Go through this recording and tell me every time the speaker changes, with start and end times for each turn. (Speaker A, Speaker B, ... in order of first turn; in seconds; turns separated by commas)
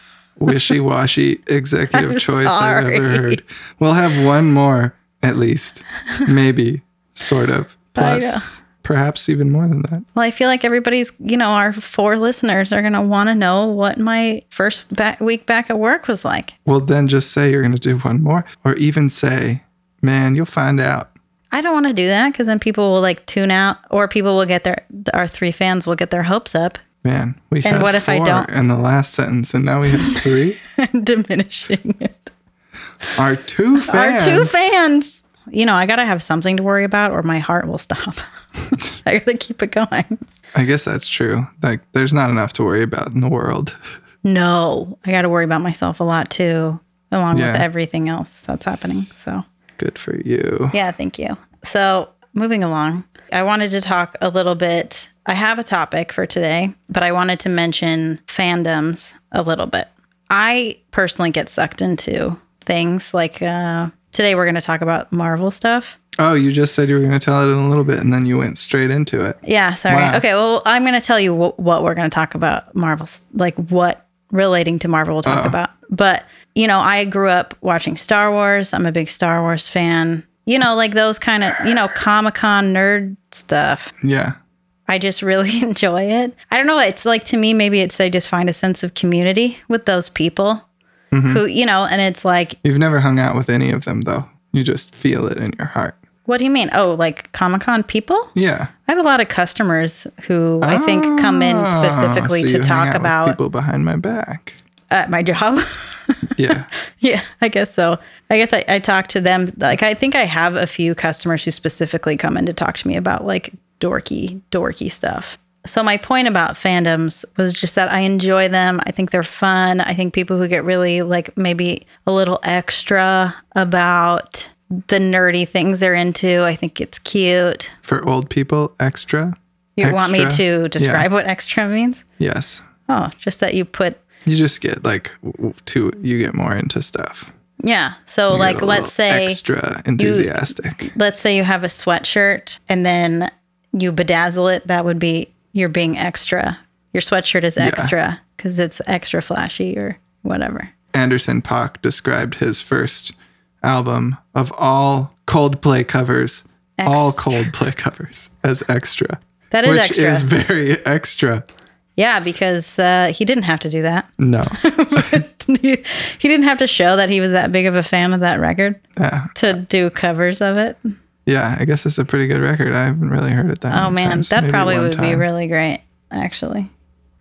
Speaker A: 0.4-10.1, Speaker B: 1.9-3.4, Speaker B: 8.0-8.5, Speaker B: 10.2-16.6, Speaker A: 16.7-21.1, Speaker B: 21.5-26.8, Speaker A: 27.0-30.6, Speaker B: 27.6-28.5, Speaker B: 29.9-32.3, Speaker A: 33.1-34.5, Speaker B: 33.8-40.2, Speaker A: 40.5-43.8, Speaker B: 44.2-49.4, Speaker A: 47.3-47.7, Speaker A: 49.8-50.8, Speaker B: 50.7-66.0, Speaker A: 66.2-70.2, Speaker B: 69.4-83.9, Speaker A: 75.3-75.6, Speaker A: 84.0-84.4, Speaker B: 84.9-90.7, Speaker A: 91.1-91.4, Speaker B: 91.3-92.6, Speaker A: 92.6-96.0, Speaker B: 96.3-98.3, Speaker A: 98.3-98.7, Speaker B: 98.9-103.4, Speaker A: 100.6-104.6, Speaker B: 104.9-127.7, Speaker A: 106.4-106.7, Speaker A: 127.8-131.1, Speaker B: 129.8-132.0, Speaker A: 132.2-132.7, Speaker B: 132.9-134.0, Speaker A: 134.2-137.3, Speaker B: 137.6-139.4, Speaker A: 138.3-140.9, Speaker B: 140.0-150.7, Speaker A: 147.6-147.9, Speaker A: 150.9-161.4, Speaker B: 156.8-157.5, Speaker B: 159.5-160.3, Speaker B: 162.0-168.8, Speaker A: 164.2-165.2, Speaker A: 169.0-169.3, Speaker B: 169.3-170.8, Speaker A: 171.3-175.2, Speaker B: 173.7-176.7